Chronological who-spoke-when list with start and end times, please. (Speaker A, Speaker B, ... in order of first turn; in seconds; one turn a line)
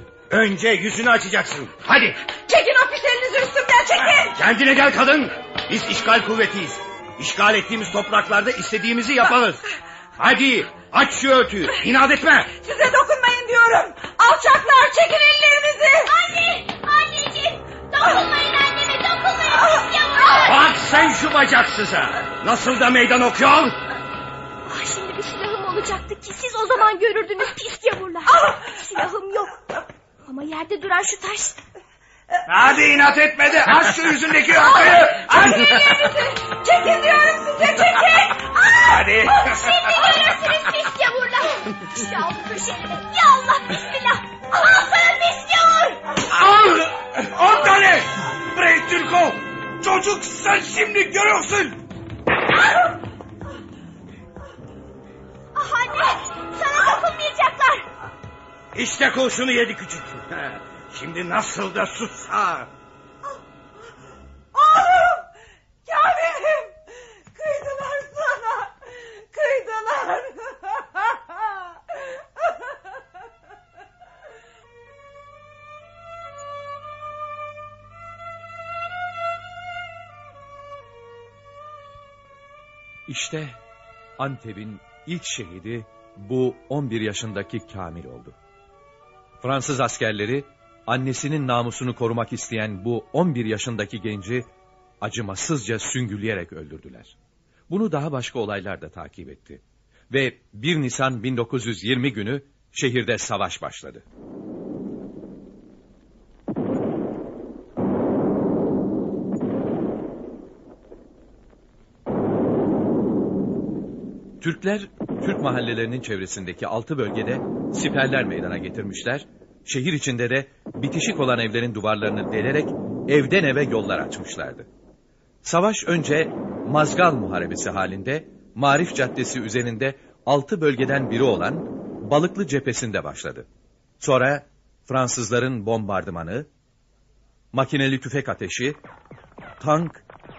Speaker A: 0.3-2.2
Speaker B: 2.3-4.4
Speaker A: 4.3-9.6
Speaker A: 10.2-12.5
Speaker B: 12.6-16.1
Speaker C: 16.0-20.6
Speaker B: 19.6-20.3
Speaker A: 20.4-23.8
Speaker C: 24.6-29.6
Speaker C: 30.2-31.6
Speaker D: 32.5-35.9
Speaker C: 34.8-46.0
Speaker B: 35.4-37.8
Speaker D: 38.8-39.5
Speaker D: 46.3-51.8
Speaker C: 55.5-57.9
Speaker A: 58.7-62.7
Speaker B: 64.5-65.2
Speaker B: 65.8-66.8
Speaker B: 67.3-72.6
Speaker E: 83.1-83.6
Speaker E: 84.2-88.3
Speaker E: 89.4-94.5
Speaker E: 95.0-97.2
Speaker E: 97.7-104.0
Speaker E: 114.4-124.7
Speaker E: 125.4-133.5
Speaker E: 134.0-136.5
Speaker E: 137.5-138.8
Speaker E: 139.6-140.0